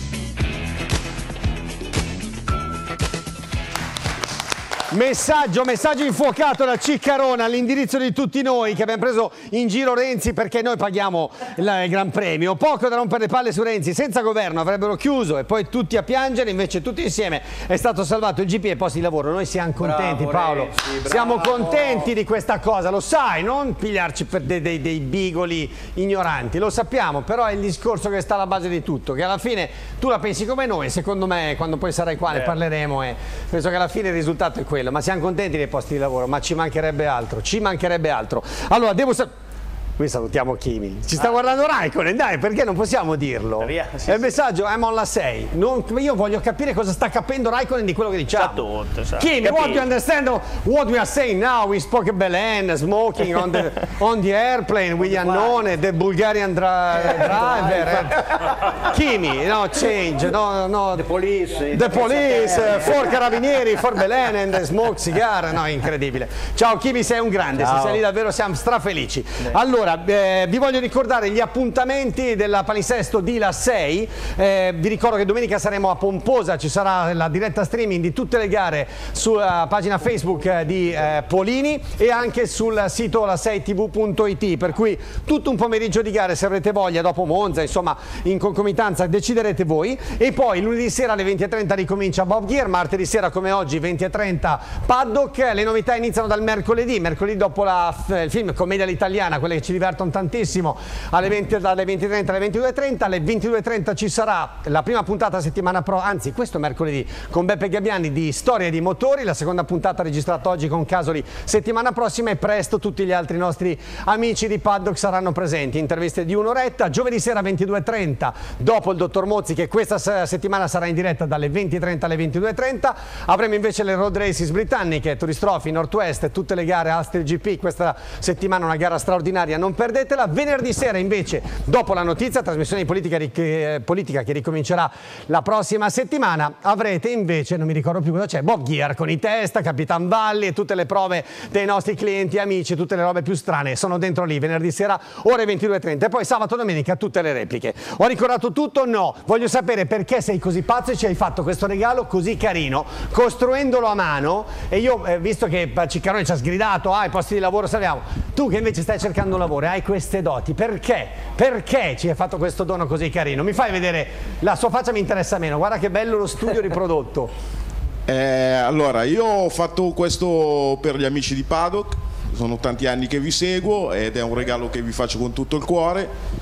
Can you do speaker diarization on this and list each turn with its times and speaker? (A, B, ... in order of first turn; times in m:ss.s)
0:04.9-0:39.3 A
0:19.8-0:22.1 B
0:40.0-0:48.6 A
0:41.2-0:41.6 C
0:43.6-0:44.3 C
0:48.3-0:49.9 C
0:49.2-1:01.0 A
0:55.0-0:55.6 B
0:56.9-0:58.1 B
1:00.9-1:03.3 B
1:01.7-2:47.3 A
1:07.6-1:08.0 B
2:48.1-2:56.1 D